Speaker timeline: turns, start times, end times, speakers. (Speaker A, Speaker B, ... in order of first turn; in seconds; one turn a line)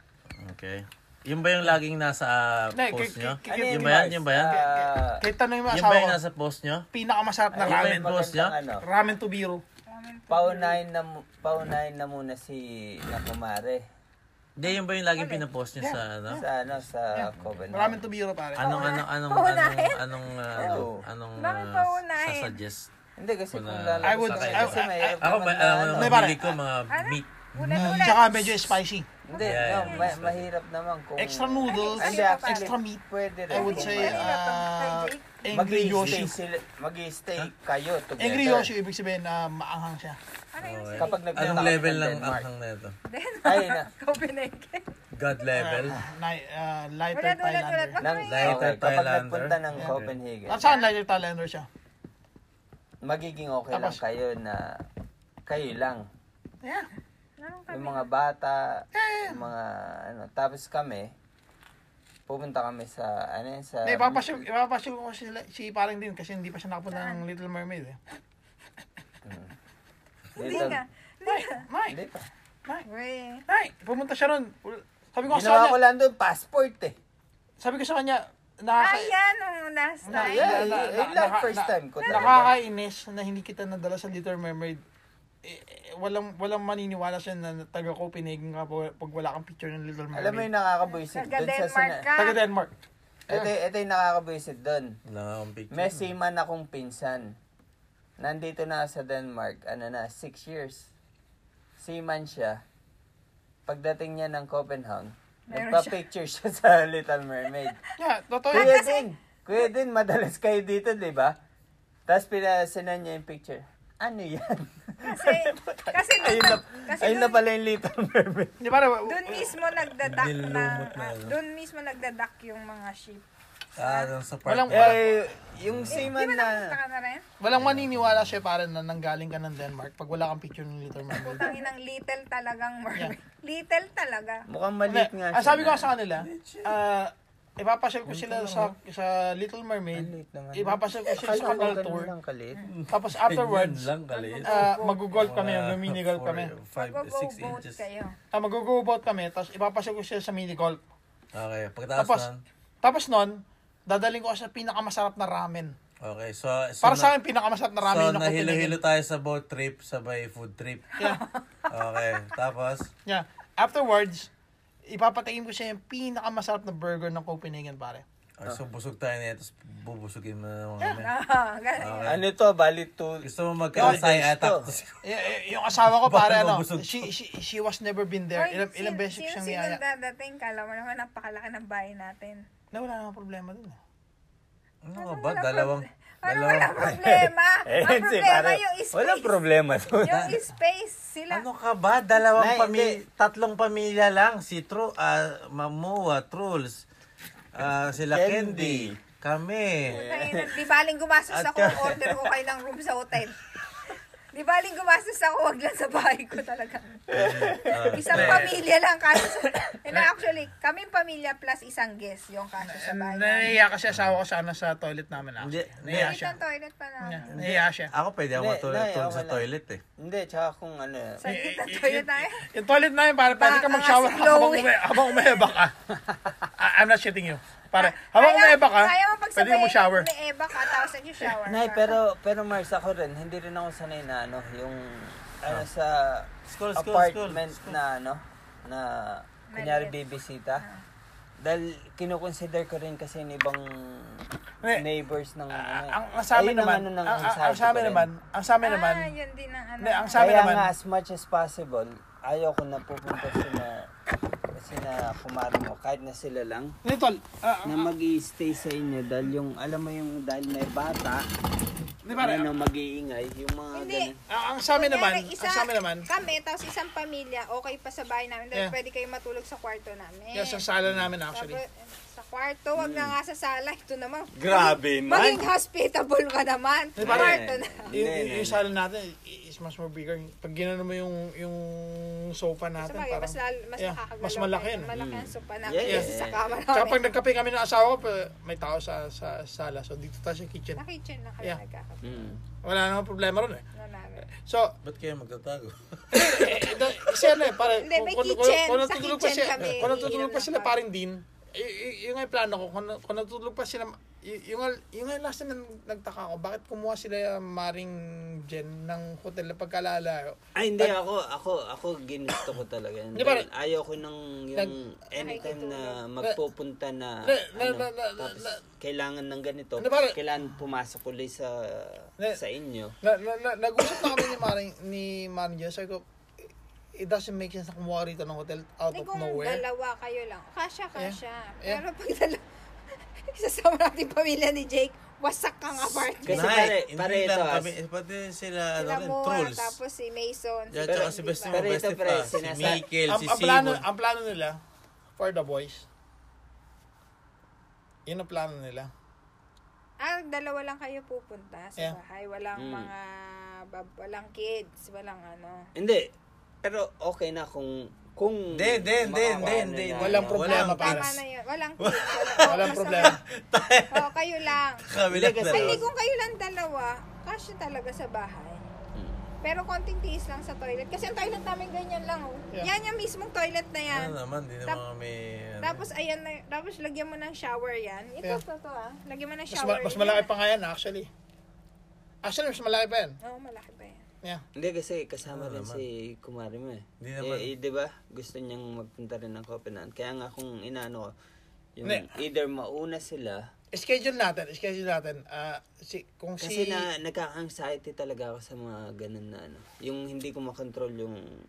Speaker A: 0.4-4.6
Speaker B: 2.7-6.2
Speaker C: 3.5-5.2
Speaker A: 5.7-6.8
Speaker B: 6.9-8.2
Speaker C: 7.5-8.8
Speaker A: 7.6-8.5
Speaker B: 8.8-9.6
Speaker D: 9.9-10.8
Speaker C: 10.3-13.8
Speaker A: 14.6-16.4
Speaker D: 14.7-15.4
Speaker C: 16.4-18.0
Speaker B: 17.1-18.9
Speaker D: 18.6-20.0
Speaker A: 18.6-22.9
Speaker C: 20.6-21.0
Speaker D: 21.4-22.6
Speaker C: 23.2-26.3
Speaker A: 23.5-28.2
Speaker B: 24.0-25.2
Speaker B: 25.9-26.5
Speaker D: 26.9-28.7
Speaker B: 27.7-29.1
Speaker C: 29.2-34.3
Speaker D: 29.3-30.1
Speaker A: 29.4-30.5
Speaker B: 31.2-36.4
Speaker D: 31.7-32.7
Speaker D: 33.5-35.4
Speaker C: 35.5-38.7
Speaker B: 38.2-40.2
Speaker D: 40.5-41.6
Speaker A: 40.6-42.9
Speaker C: 41.0-42.5
Speaker D: 43.1-44.9
Speaker C: 43.4-43.9
Speaker A: 45.1-46.0
Speaker B: 45.5-48.0
Speaker D: 47.1-48.7
Speaker C: 48.0-50.6
Speaker A: 48.2-50.1
Speaker B: 50.5-51.7
Speaker D: 50.6-50.9
Speaker C: 53.0-54.8
Speaker B: 53.7-54.0
Speaker C: 55.5-56.0
Speaker D: 57.4-58.1
Speaker C: 57.7-61.1
Speaker B: 58.9-59.4
Speaker C: 62.3-64.4
Speaker B: 63.8-68.0
Speaker D: 66.9-67.2
Speaker C: 69.2-69.5
Speaker C: 70.3-70.8
Speaker D: 70.4-71.6
Speaker B: 71.2-72.0
Speaker C: 71.9-72.3
Speaker D: 72.9-73.4
Speaker B: 73.5-75.8
Speaker C: 75.3-76.9
Speaker B: 77.6-79.1
Speaker D: 78.8-80.8
Speaker B: 80.0-84.8
Speaker C: 80.1-82.5
Speaker D: 82.0-82.6
Speaker B: 85.4-90.5
Speaker C: 90.1-92.1
Speaker D: 90.8-92.4
Speaker B: 92.2-92.7
Speaker C: 93.3-94.9
Speaker A: 95.1-96.1
Speaker C: 95.7-97.3
Speaker C: 98.2-100.9
Speaker C: 101.8-102.6
Speaker C: 103.7-107.8
Speaker D: 105.5-106.0
Speaker B: 108.0-108.8
Speaker D: 108.5-109.7
Speaker C: 108.5-111.3
Speaker C: 112.1-118.6
Speaker D: 115.0-117.4
Speaker B: 118.6-119.5
Speaker D: 119.0-123.2
Speaker A: 120.0-121.3
Speaker A: 123.8-126.1
Speaker D: 123.8-124.1
Speaker B: 124.5-125.0
Speaker C: 124.7-126.8
Speaker D: 125.9-127.2
Speaker B: 127.4-131.6
Speaker A: 127.5-128.4
Speaker D: 131.1-134.4
Speaker C: 134.5-135.9
Speaker B: 134.9-142.1
Speaker A: 136.2-136.8
Speaker A: 138.1-138.7
Speaker C: 139.9-142.6
Speaker A: 142.6-147.8
Speaker B: 142.9-143.9
Speaker D: 144.1-145.1
Speaker B: 144.4-146.5
Speaker D: 146.8-148.2
Speaker B: 148.3-150.8
Speaker A: 151.3-152.4
Speaker B: 151.9-152.3
Speaker B: 152.8-155.7
Speaker A: 156.0-157.2
Speaker B: 156.8-158.8
Speaker A: 157.8-161.0
Speaker D: 161.0-161.7
Speaker A: 161.7-162.9
Speaker B: 163.1-164.3
Speaker B: 164.9-168.0
Speaker A: 168.4-171.1
Speaker D: 170.9-172.2
Speaker A: 171.8-172.2
Speaker C: 172.1-174.7
Speaker A: 173.2-175.0
Speaker B: 175.0-179.8
Speaker A: 175.7-177.1
Speaker D: 178.3-182.4
Speaker B: 182.7-183.8
Speaker A: 184.8-186.9
Speaker D: 184.9-189.3
Speaker C: 186.8-190.4
Speaker D: 190.0-191.4
Speaker A: 191.3-196.8
Speaker C: 192.3-193.0
Speaker A: 197.5-200.0
Speaker C: 198.1-199.0
Speaker C: 199.9-200.6
Speaker D: 199.9-203.4
Speaker C: 201.4-202.2
Speaker D: 204.3-213.6
Speaker C: 207.1-208.4
Speaker A: 207.1-208.6
Speaker B: 212.6-216.4
Speaker A: 213.9-214.2
Speaker A: 215.4-216.2
Speaker D: 215.9-217.4
Speaker B: 217.0-217.9
Speaker A: 217.3-219.8
Speaker C: 218.3-219.4
Speaker C: 220.0-221.2
Speaker D: 221.2-222.4
Speaker B: 221.2-225.7
Speaker D: 223.3-225.5
Speaker B: 226.6-230.1
Speaker D: 227.7-232.0
Speaker C: 231.4-240.6
Speaker A: 236.5-237.8
Speaker D: 239.5-240.0
Speaker C: 241.4-244.2
Speaker C: 244.7-248.1
Speaker B: 245.5-249.1
Speaker D: 248.6-250.2
Speaker B: 249.8-250.7
Speaker C: 250.2-253.9
Speaker C: 254.6-256.8
Speaker B: 256.8-257.9
Speaker C: 257.6-261.2
Speaker B: 262.0-262.5
Speaker C: 262.1-264.2
Speaker D: 263.7-264.1
Speaker B: 264.3-266.1
Speaker D: 264.7-270.6
Speaker B: 270.3-271.6
Speaker D: 271.3-277.9
Speaker C: 272.8-273.1
Speaker C: 274.4-275.4
Speaker B: 276.9-277.4
Speaker C: 277.0-278.7
Speaker B: 277.9-284.9
Speaker D: 282.8-287.1
Speaker C: 284.9-286.6
Speaker B: 285.8-286.1
Speaker B: 286.7-290.8
Speaker D: 290.8-292.3
Speaker C: 292.0-292.4
Speaker B: 292.6-293.6
Speaker D: 293.7-294.3
Speaker B: 294.3-294.7
Speaker A: 294.8-296.9
Speaker B: 296.1-310.9
Speaker D: 297.4-300.8
Speaker A: 299.6-300.0
Speaker C: 310.5-322.9
Speaker B: 313.1-313.5
Speaker D: 315.1-316.0
Speaker B: 317.2-318.6
Speaker B: 319.8-320.2
Speaker B: 323.0-326.0
Speaker B: 326.9-329.6
Speaker D: 328.9-332.4
Speaker B: 330.9-331.8
Speaker D: 333.3-336.6
Speaker C: 336.2-337.7
Speaker A: 336.2-339.8
Speaker D: 338.8-341.6
Speaker A: 340.7-343.8
Speaker C: 340.9-342.8
Speaker B: 343.1-344.6
Speaker B: 345.2-345.9
Speaker B: 348.1-348.9
Speaker D: 350.0-355.7
Speaker C: 352.6-352.9
Speaker C: 355.8-356.1
Speaker C: 356.6-360.4
Speaker A: 358.5-361.2
Speaker B: 359.4-361.1
Speaker D: 360.4-363.1
Speaker A: 361.8-364.1
Speaker B: 362.4-363.2
Speaker D: 363.9-364.8
Speaker A: 364.8-365.8
Speaker C: 365.1-365.9
Speaker D: 365.5-368.6
Speaker C: 368.9-369.2
Speaker D: 369.4-374.1
Speaker A: 373.9-375.9
Speaker D: 375.6-380.3
Speaker B: 379.5-381.1
Speaker B: 382.2-383.2
Speaker D: 383.2-384.0
Speaker C: 384.6-391.1
Speaker A: 385.3-385.8
Speaker A: 387.0-387.5
Speaker C: 391.8-393.4
Speaker B: 391.8-392.1
Speaker B: 393.7-396.9
Speaker C: 396.4-401.2